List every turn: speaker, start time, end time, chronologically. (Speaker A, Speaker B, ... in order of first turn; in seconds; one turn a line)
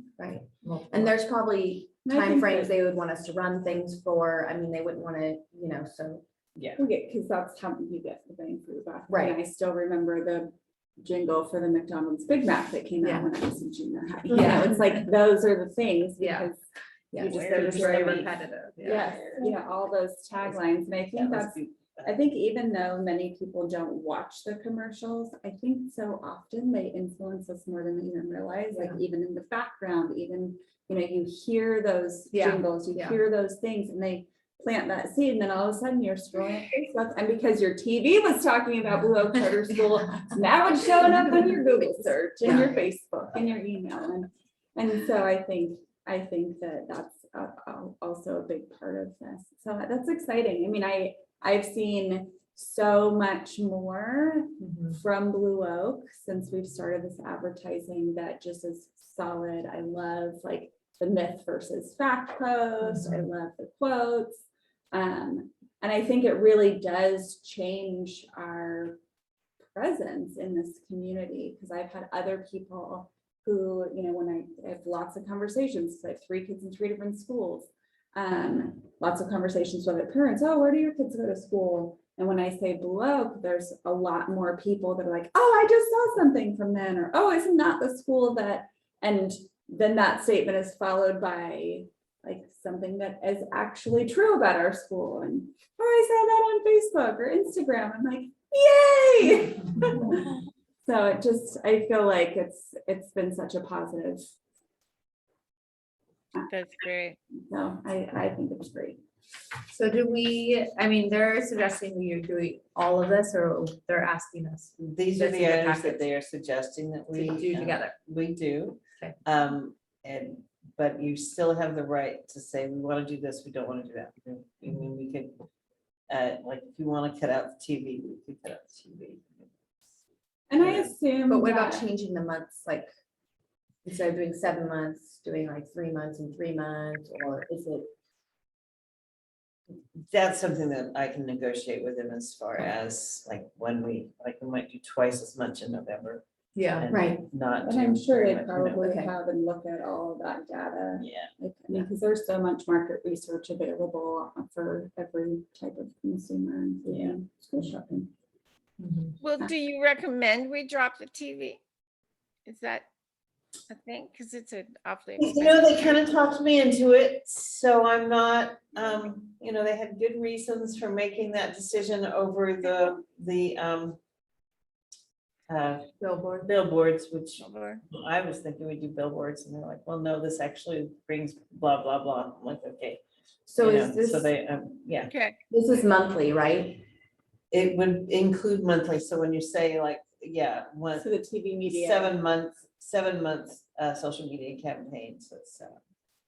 Speaker A: 0.2-6.2
Speaker B: 0.6-1.2
Speaker C: 2.0-2.7
Speaker C: 6.8-16.6
Speaker A: 9.1-9.4
Speaker B: 13.0-13.3
Speaker B: 14.3-15.0
Speaker B: 16.2-16.5
Speaker B: 17.1-19.4
Speaker C: 17.2-69.0
Speaker D: 17.3-18.3
Speaker D: 21.1-22.1
Speaker B: 32.3-33.2
Speaker B: 42.4-42.8
Speaker B: 54.7-54.9
Speaker B: 62.9-63.2
Speaker C: 69.7-104.3
Speaker E: 106.5-107.2
Speaker C: 107.4-109.0
Speaker B: 109.7-116.0
Speaker D: 114.8-125.3
Speaker B: 117.1-117.9
Speaker D: 126.1-129.5
Speaker C: 130.5-131.9
Speaker D: 130.6-130.9
Speaker A: 131.3-132.9
Speaker A: 133.8-137.9
Speaker D: 140.1-149.1
Speaker B: 146.6-146.9
Speaker A: 146.9-147.2
Speaker C: 147.6-158.1
Speaker D: 151.0-151.3
Speaker E: 159.2-161.6
Speaker E: 162.4-162.8
Speaker E: 163.7-166.0
Speaker D: 165.2-174.0
Speaker D: 175.5-183.0
Speaker B: 176.0-176.5
Speaker E: 177.4-177.8
Speaker A: 183.5-184.3
Speaker D: 183.6-185.1
Speaker E: 185.1-185.4
Speaker A: 185.5-186.8
Speaker D: 187.5-191.1
Speaker C: 191.0-192.2
Speaker D: 191.7-195.8